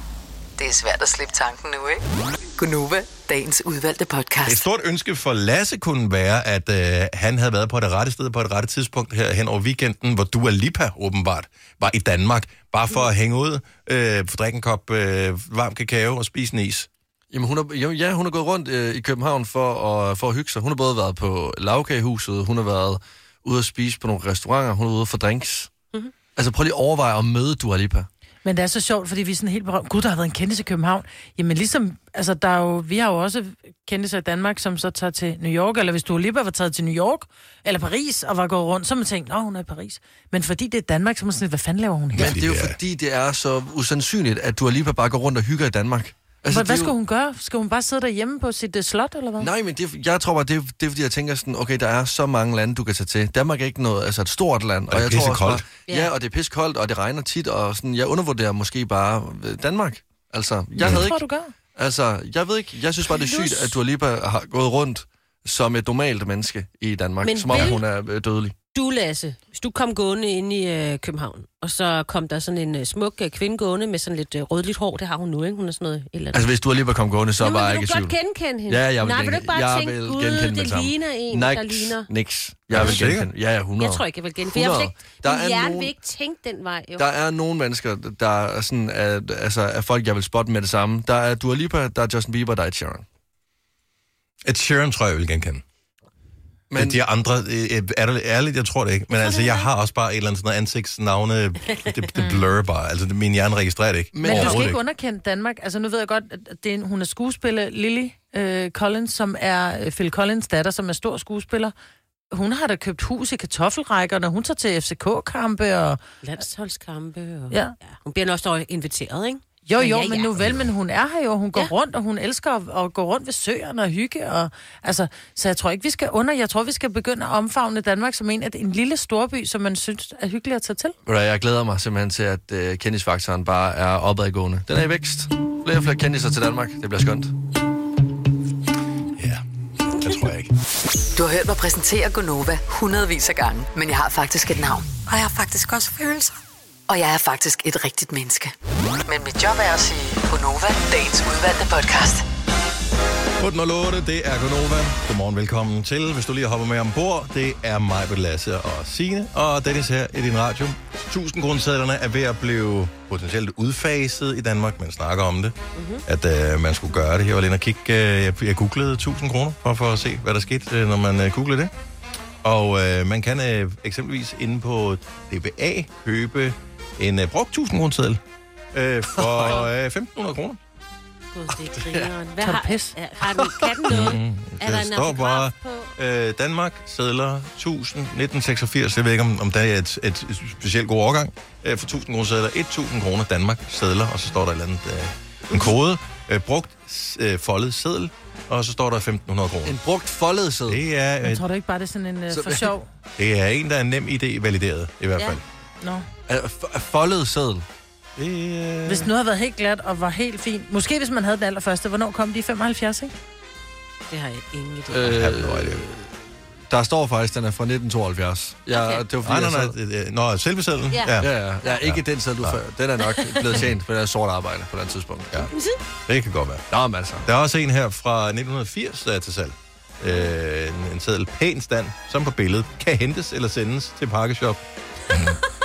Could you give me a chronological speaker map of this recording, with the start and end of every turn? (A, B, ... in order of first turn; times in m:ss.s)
0:00.6-0:02.0 A
0:02.6-0:04.6 A
0:04.4-0:16.9 B
0:17.3-0:25.7 C
0:26.4-0:28.1 C
0:28.4-0:42.4 D
0:42.1-0:42.8 B
0:42.2-0:46.9 C
0:46.5-0:49.5 D
0:49.4-1:01.2 C
0:54.9-0:55.6 B
1:00.8-1:01.5 D
1:01.7-1:08.6 C
1:03.4-1:03.7 E
1:07.2-1:07.8 E
1:08.7-1:16.5 E
1:16.3-1:18.1 C
1:17.4-1:22.1 E
1:18.7-1:25.9 C
1:22.7-1:23.3 B
1:23.8-1:27.1 E
1:27.0-1:33.0 C
1:34.4-1:35.6 B
1:36.7-1:37.0 C
1:36.7-1:44.8 B
1:39.1-1:39.7 E
1:42.2-1:42.4 D
1:44.1-1:44.7 C
1:44.2-1:51.7 D
1:52.3-1:56.0 D
1:56.2-2:00.3 E
1:59.6-2:11.0 D
2:00.4-2:00.7 B
2:11.0-2:17.3 C
2:19.2-2:19.4 B
2:20.0-2:20.5 B
2:21.2-2:24.9 A
2:26.9-2:28.5 A
2:29.0-2:32.2 A
2:33.4-2:51.7 B
2:45.7-2:46.0 E
2:52.4-2:58.2 B
2:58.7-3:00.6 B
2:59.2-2:59.6 C
3:01.3-3:05.9 E
3:01.7-3:02.1 C
3:02.4-3:02.9 D
3:03.3-3:04.0 C
3:03.9-3:19.8 B
3:19.6-3:20.8 C
3:20.7-3:21.4 B
3:21.2-3:22.9 D
3:22.3-3:22.8 C
3:23.2-3:25.4 B
3:25.8-3:26.1 D
3:26.3-3:27.6 C
3:28.2-3:29.1 B
3:28.8-3:33.1 D
3:34.1-3:35.2 E
3:34.9-3:36.1 C
3:35.1-3:35.8 B
3:36.7-3:39.7 C
3:38.7-3:39.0 E
3:39.2-3:41.3 B
3:40.9-3:41.8 E
3:41.2-3:45.4 C
3:41.8-3:42.6 B
3:43.1-3:43.6 E
3:45.5-3:45.8 E
3:46.1-3:46.6 B
3:46.7-3:47.3 C
3:47.2-3:54.6 B